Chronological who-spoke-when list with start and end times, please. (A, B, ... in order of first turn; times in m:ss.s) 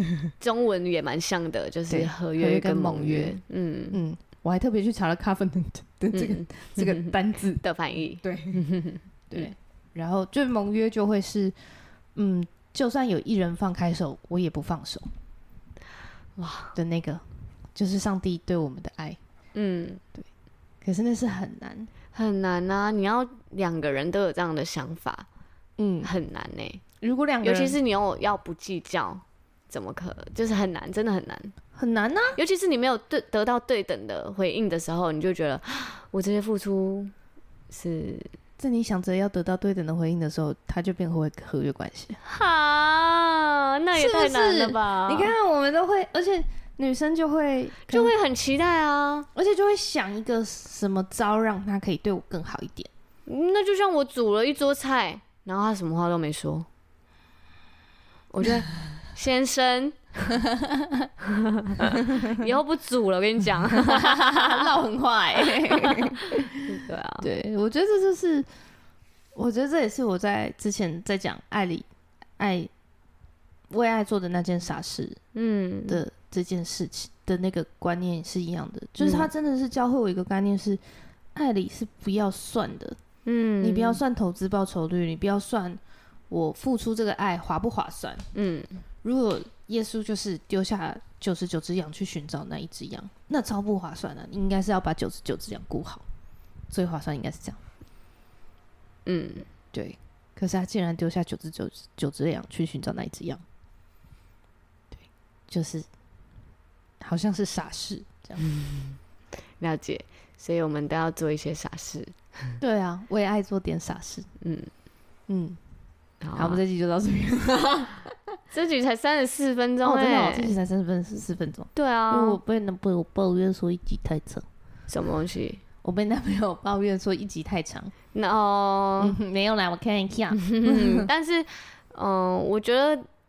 0:00.4-0:04.0 A
0:01.9-0:03.4 B
0:03.9-0:07.6 B
0:06.1-0:09.5 A
0:08.2-0:08.6 B
0:09.3-0:11.5 B
0:12.1-0:15.1 B
0:16.4-0:16.8 A
0:16.7-0:17.2 B
0:17.7-0:19.2 B
0:19.5-0:20.0 A
0:20.8-0:21.9 B
0:22.1-0:25.3 A
0:25.8-0:26.1 B
0:26.0-0:26.8 A
0:27.0-0:27.8 B
0:27.4-0:31.5 A
0:31.7-0:32.4 B
0:32.4-0:37.1 A
0:37.7-0:38.3 A
0:38.6-0:42.2 B
0:42.2-0:45.3 A
0:43.9-0:48.1 B
0:47.9-0:49.3 A
0:49.3-0:52.9 B
0:53.3-0:56.7 A
0:58.3-1:00.4 A
1:00.5-1:01.1 B
1:01.2-1:04.7 A
1:02.1-1:02.4 B
1:03.7-1:06.6 B
1:05.4-1:07.3 A
1:07.2-1:08.5 B
1:09.3-1:11.8 B
1:12.4-1:12.7 B
1:13.7-1:15.2 B
1:15.3-1:16.0 A
1:15.9-1:20.8 B
1:19.0-1:19.3 A
1:21.3-1:23.0 B
1:23.2-1:24.0 A
1:23.6-1:28.3 B
1:28.3-1:28.8 A
1:29.0-1:36.0 B
1:36.7-1:37.6 B
1:39.0-1:39.5 A
1:39.7-1:43.4 B
1:45.0-1:45.9 B
1:47.0-1:48.4 B
1:48.4-1:49.0 A
1:49.6-1:52.6 A
1:52.6-1:54.3 B
1:54.4-1:54.7 A
1:55.3-1:55.6 B
1:56.2-1:56.6 A
1:56.4-1:58.1 B
1:58.5-2:00.5 A
1:59.8-2:04.4 B
2:01.7-2:02.4 A
2:04.9-2:05.6 A
2:05.8-2:07.9 B
2:08.1-2:09.2 A
2:09.0-2:11.1 B
2:10.3-2:13.1 A